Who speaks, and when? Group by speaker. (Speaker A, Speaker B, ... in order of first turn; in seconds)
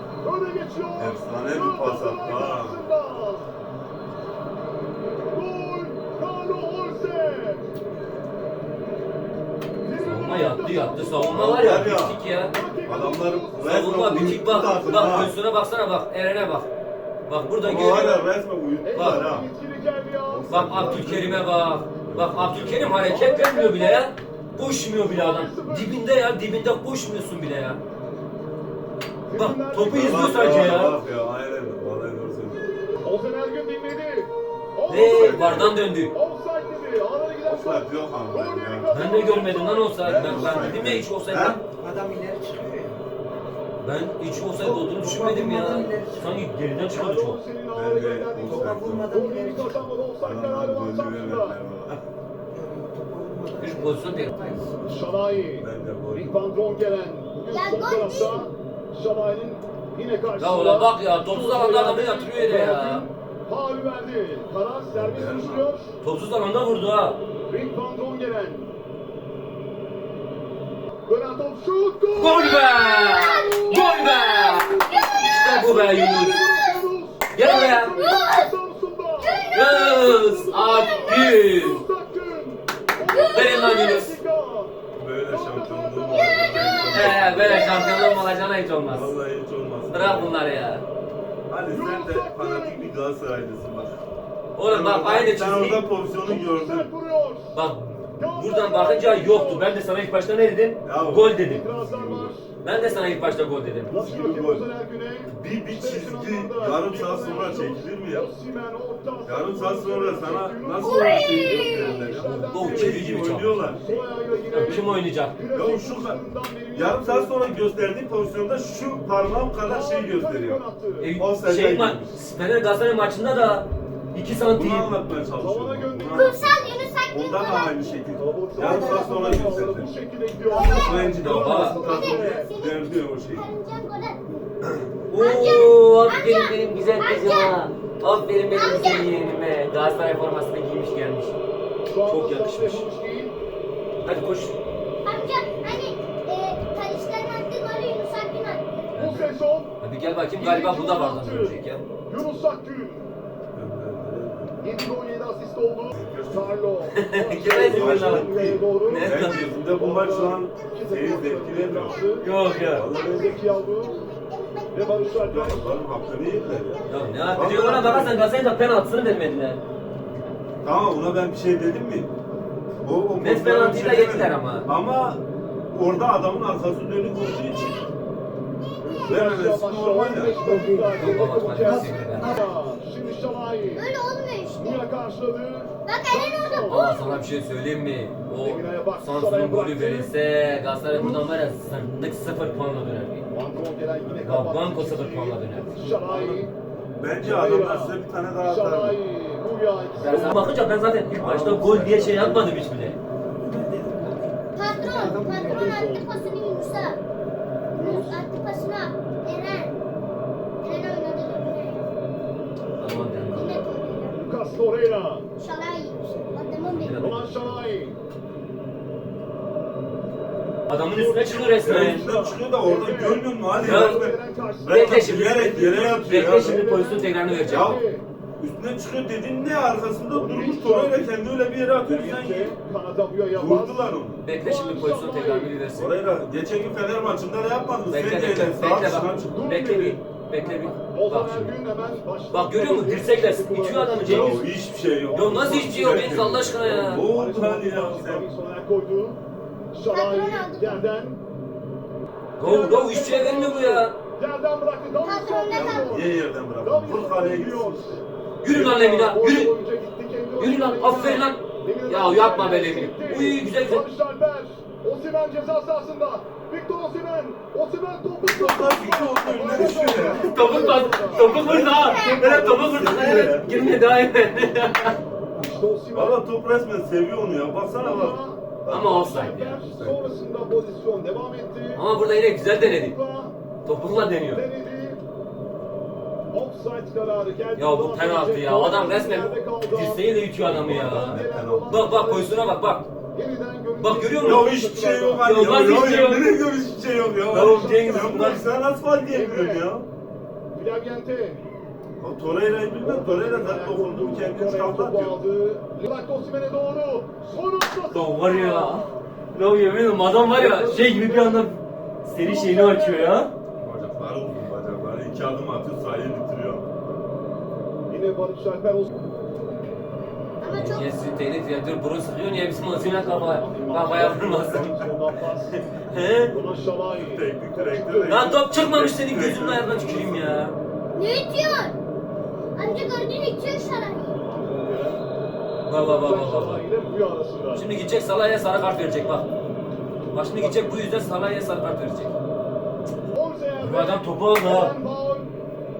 Speaker A: 0.2-3.5, 5.3-7.6, 9.8-11.9, 12.5-15.3, 17.7-18.2, 18.8-20.9, 23.0-24.1, 24.9-26.2, 29.3-30.8, 33.0-40.9, 46.9-51.6, 54.8-65.9, 67.5-68.7, 71.1-72.6, 75.8-84.7, 85.3-86.5, 91.7-92.9, 96.1-97.5, 98.2-99.8, 101.4-103.2, 103.9-113.0, 113.8-117.3, 119.6-121.1, 125.4-126.5, 128.2-132.5, 141.8-143.3, 148.9-149.7, 150.3-153.1, 154.6-162.3, 163.0-163.9, 164.7-165.8, 178.8-183.9, 184.6-187.1, 188.4-190.1, 190.9-191.4, 193.3-196.5, 197.2-200.6, 205.4-206.1, 207.7-208.2, 214.2-215.2, 217.0-218.0, 220.8-228.0, 230.1-231.1, 231.8-235.6, 239.3-244.4, 245.1-249.2, 249.7-251.2, 252.4-272.8, 275.4-276.2, 277.7-281.8, 282.5-283.4, 284.2-285.0, 286.3-292.6, 293.1-295.3, 297.3-298.4, 299.0-299.7, 300.5-301.4, 302.8-309.1, 310.3-311.5, 312.2-313.2, 317.9-318.9, 322.7-325.6, 326.3-328.3, 334.2-335.0, 335.7-337.7, 340.3-340.8, 343.1-345.3
Speaker B: 1.0-2.8, 11.3-12.2, 12.8-15.3, 17.6-19.4, 20.3-21.5, 22.1-23.0, 29.9-32.6, 35.1-35.7, 37.4-39.0, 40.0-41.6, 47.7-49.1, 50.2-52.0, 55.6-56.3, 64.9-65.7, 85.0-87.8, 88.8-90.3, 91.5-94.0, 94.7-96.9, 100.8-102.3, 103.9-104.6, 105.3-108.3, 109.2-113.8, 115.5-116.2, 116.7-120.6, 121.2-122.2, 124.5-129.9, 130.7-133.5, 153.5-154.6, 155.9-156.5, 157.4-162.0, 162.7-163.4, 165.3-168.2, 170.6-172.1, 172.8-175.2, 175.7-177.8, 179.1-180.4, 194.0-194.3, 196.1-196.4, 196.9-199.0, 201.2-202.6, 221.6-226.7, 227.5-227.8, 228.4-232.6, 233.3-234.2, 235.7-239.3, 243.9-248.2, 255.5-257.9, 268.2-273.5, 275.9-280.0, 290.5-291.9, 294.2-299.9, 302.0-305.2, 313.6-316.6, 326.9-330.4
Speaker C: 10.0-12.5, 13.6-16.7, 17.3-18.2, 18.9-19.2, 20.5-27.8, 29.4-31.0, 34.9-36.1, 38.9-41.6, 43.8-47.4, 53.6-54.3, 60.4-63.0, 66.0-67.2, 72.2-76.4, 77.3-78.0, 79.5-81.8, 83.3-84.2, 86.9-89.1, 89.9-90.8, 94.5-95.8, 97.5-101.6, 102.6-103.9, 112.5-113.7, 114.5-115.4, 121.0-124.9, 131.2-131.8, 135.1-141.3, 142.1-142.8, 144.0-144.5, 148.9-149.2, 149.8-151.8, 156.9-158.3, 158.8-159.4, 162.2-162.9, 166.9-169.6, 173.2-174.7, 180.9-182.4, 186.7-193.2, 194.2-196.4, 199.9-203.0, 212.8-213.7, 216.7-217.6, 220.7-222.0, 223.6-224.1, 224.7-227.8, 234.2-235.9, 237.9-241.6, 242.3-244.4, 245.1-247.1, 252.4-253.9, 258.4-259.5, 260.4-263.9, 270.1-275.0, 278.7-279.6, 281.7-282.9, 283.6-284.4, 287.5-292.9, 293.8-294.5, 295.2-296.5, 297.3-298.4, 307.9-313.3, 320.5-324.9, 325.8-326.3, 328.1-330.6, 335.7-336.6, 337.5-339.3, 340.1-342.1, 343.6-344.7
Speaker D: 41.6-43.0, 44.5-46.5, 48.4-49.8, 52.5-54.8, 128.6-129.6, 130.5-131.4, 180.3-182.4, 203.4-206.0
Speaker E: 57.5-58.4, 72.4-76.6, 78.0-78.5, 79.3-79.8, 83.1-83.8, 86.0-88.3, 110.8-112.1, 126.1-128.1, 131.7-134.2, 135.2-137.6, 138.5-139.1, 145.0-148.7, 160.6-160.9, 161.9-167.6, 182.1-182.5, 183.7-184.8, 185.8-187.2, 204.5-207.0, 207.8-209.7, 210.6-211.9, 213.3-214.2, 215.4-217.0, 249.9-250.8, 255.0-256.0, 271.7-272.3, 320.4-320.9, 330.9-331.8, 332.5-334.1